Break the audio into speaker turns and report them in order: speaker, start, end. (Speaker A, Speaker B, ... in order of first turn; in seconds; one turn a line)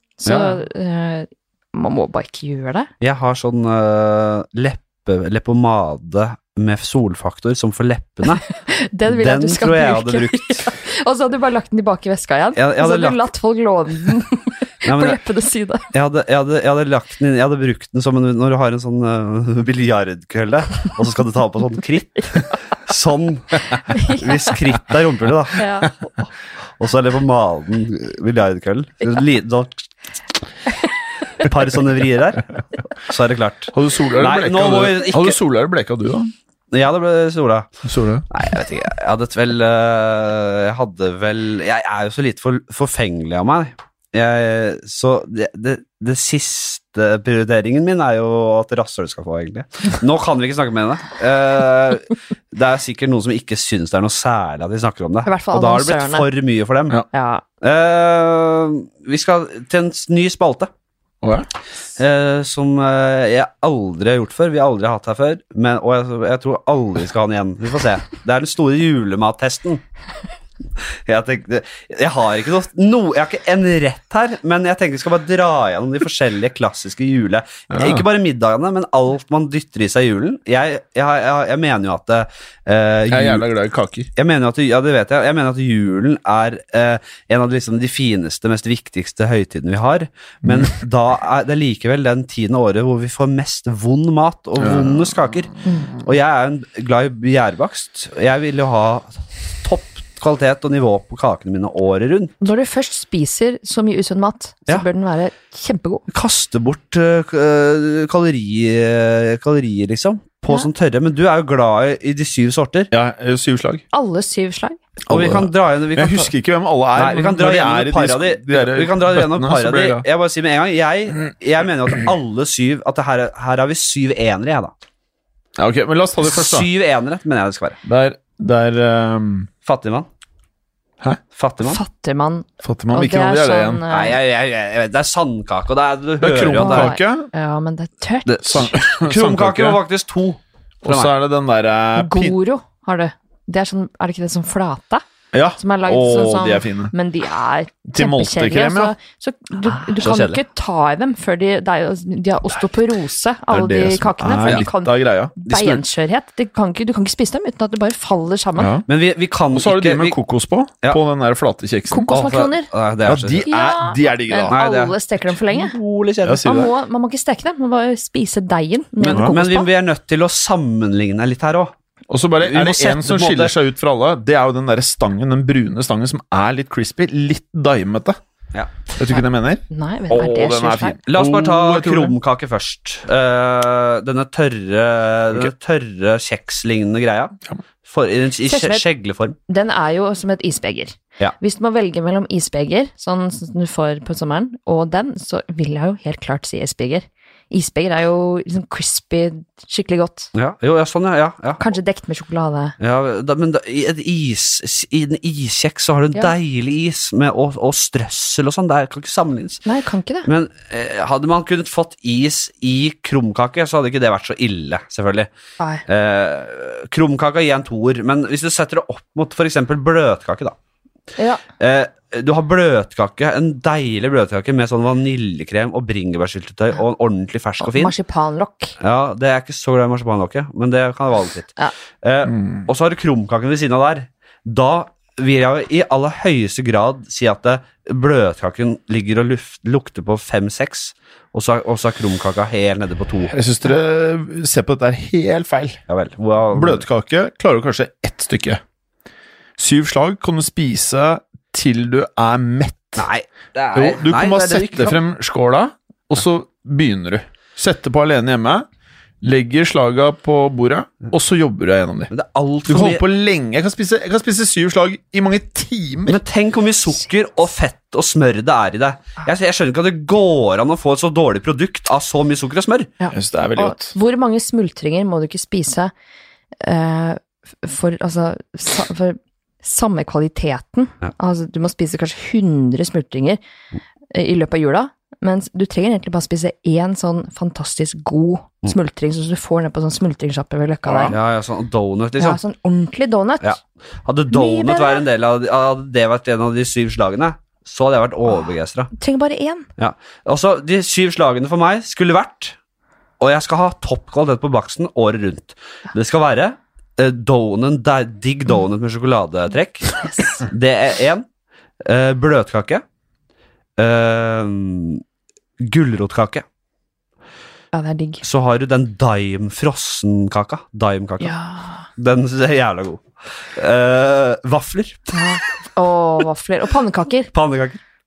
Speaker A: 0.2-2.9
Speaker B: 0.2-0.6
Speaker B: 3.0-8.4
Speaker A: 8.5-15.9
Speaker B: 9.1-10.7
Speaker B: 12.6-13.2
Speaker B: 14.8-15.2
Speaker B: 15.9-25.6
Speaker A: 23.9-24.2
Speaker A: 25.6-25.9
Speaker B: 26.8-29.9
Speaker B: 31.4-35.4
Speaker C: 33.7-36.3
Speaker B: 36.7-37.7
Speaker C: 37.9-38.2
Speaker B: 38.3-57.0
Speaker A: 55.2-56.3
Speaker A: 57.1-57.4
Speaker B: 57.6-60.7
Speaker C: 61.2-61.5
Speaker B: 62.0-69.8
Speaker B: 70.8-83.5
Speaker C: 77.7-78.0
Speaker C: 83.1-84.1
Speaker B: 84.2-102.3
Speaker C: 90.5-90.7
Speaker C: 94.6-95.0
Speaker A: 95.7-95.9
Speaker A: 102.4-106.0
Speaker B: 106.1-112.9
Speaker C: 112.9-113.8
Speaker A: 113.9-114.8
Speaker B: 115.1-116.3
Speaker C: 115.1-120.0
Speaker B: 117.0-124.7
Speaker C: 125.6-126.7
Speaker B: 126.2-127.8
Speaker C: 127.9-129.5
Speaker B: 129.7-130.1
Speaker B: 131.3-131.8
Speaker A: 131.6-134.2
Speaker C: 132.6-133.8
Speaker B: 133.9-136.9
Speaker C: 136.2-137.3
Speaker A: 136.6-138.3
Speaker B: 138.3-141.1
Speaker C: 138.4-139.8
Speaker C: 140.8-142.4
Speaker A: 141.9-145.0
Speaker C: 145.3-146.9
Speaker A: 145.6-158.8
Speaker C: 147.9-148.9
Speaker B: 150.0-150.4
Speaker C: 153.5-155.8
Speaker C: 158.6-158.9
Speaker B: 158.9-160.2
Speaker C: 159.5-162.1
Speaker A: 161.9-162.7
Speaker B: 162.1-163.5
Speaker C: 163.1-164.6
Speaker A: 163.5-165.8
Speaker B: 164.5-166.7
Speaker C: 166.2-166.7
Speaker A: 166.4-169.7
Speaker B: 169.0-171.7
Speaker C: 172.1-178.2
Speaker B: 172.4-173.5
Speaker B: 178.5-178.8
Speaker C: 178.9-182.2
Speaker A: 179.1-181.0
Speaker B: 181.1-189.4
Speaker A: 188.4-188.8
Speaker A: 189.5-200.3
Speaker B: 200.3-201.6
Speaker A: 201.6-202.8
Speaker B: 202.8-209.6
Speaker A: 209.7-210.3
Speaker B: 210.2-215.3
Speaker B: 215.9-220.6
Speaker A: 221.2-221.4
Speaker B: 221.6-227.9
Speaker A: 227.6-228.8
Speaker B: 228.8-243.3
Speaker C: 232.3-232.7
Speaker C: 243.3-245.8
Speaker B: 245.9-246.8
Speaker C: 246.5-248.6
Speaker C: 249.6-253.1
Speaker B: 253.0-255.0
Speaker C: 253.8-258.7
Speaker C: 259.2-262.1
Speaker B: 262.1-263.0
Speaker C: 262.7-266.2
Speaker B: 266.1-272.9
Speaker A: 273.0-275.9
Speaker C: 273.1-273.9
Speaker A: 276.6-283.4
Speaker A: 284.1-291.1
Speaker B: 291.0-292.4
Speaker A: 292.2-293.6
Speaker B: 293.4-298.9
Speaker A: 294.3-295.1
Speaker A: 298.9-299.7
Speaker B: 299.8-302.6
Speaker B: 303.2-311.3
Speaker A: 310.0-310.4
Speaker B: 311.8-312.8
Speaker B: 313.8-315.0
Speaker B: 315.6-316.4
Speaker A: 317.7-318.2
Speaker B: 318.2-321.4
Speaker A: 321.2-321.9
Speaker B: 322.0-325.2
Speaker A: 325.1-327.3
Speaker B: 327.3-327.8